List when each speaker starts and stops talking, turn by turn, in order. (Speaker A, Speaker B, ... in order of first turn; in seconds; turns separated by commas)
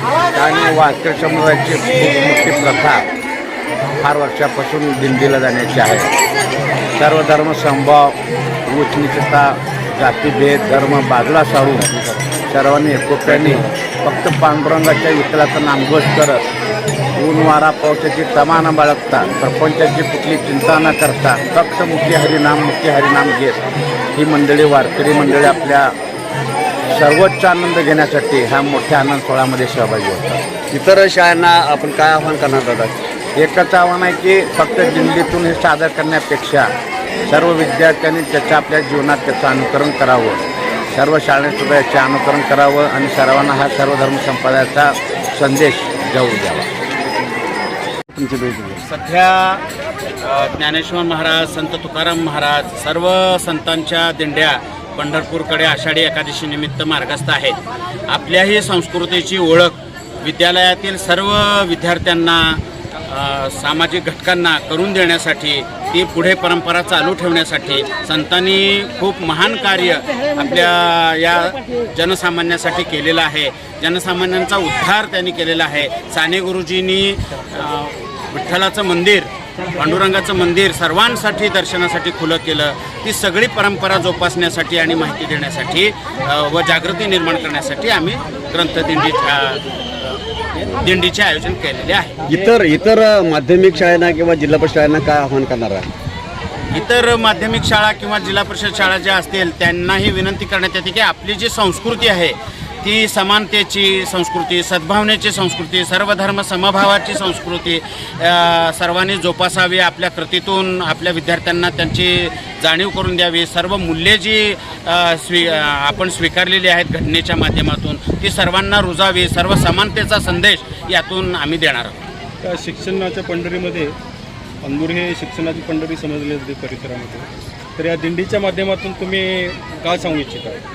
Speaker A: 0.3-3.0, Speaker A: 4.0-6.1, Speaker A: 7.0-8.2, Speaker A: 8.7-11.9, Speaker B: 11.9-12.2, Speaker A: 12.5-16.4, Speaker B: 13.3-13.7, Speaker A: 17.2-23.6, Speaker A: 24.1-25.9, Speaker A: 26.9-30.4, Speaker B: 30.7-33.0, Speaker A: 33.4-36.7, Speaker A: 37.3-46.7, Speaker B: 48.1-48.8, Speaker C: 48.9-49.6, Speaker C: 50.2-57.6, Speaker C: 58.1-90.2, Speaker C: 90.7-92.2, Speaker B: 92.3-95.9, Speaker C: 96.7-122.0, Speaker D: 122.4-123.9, Speaker D: 124.6-130.6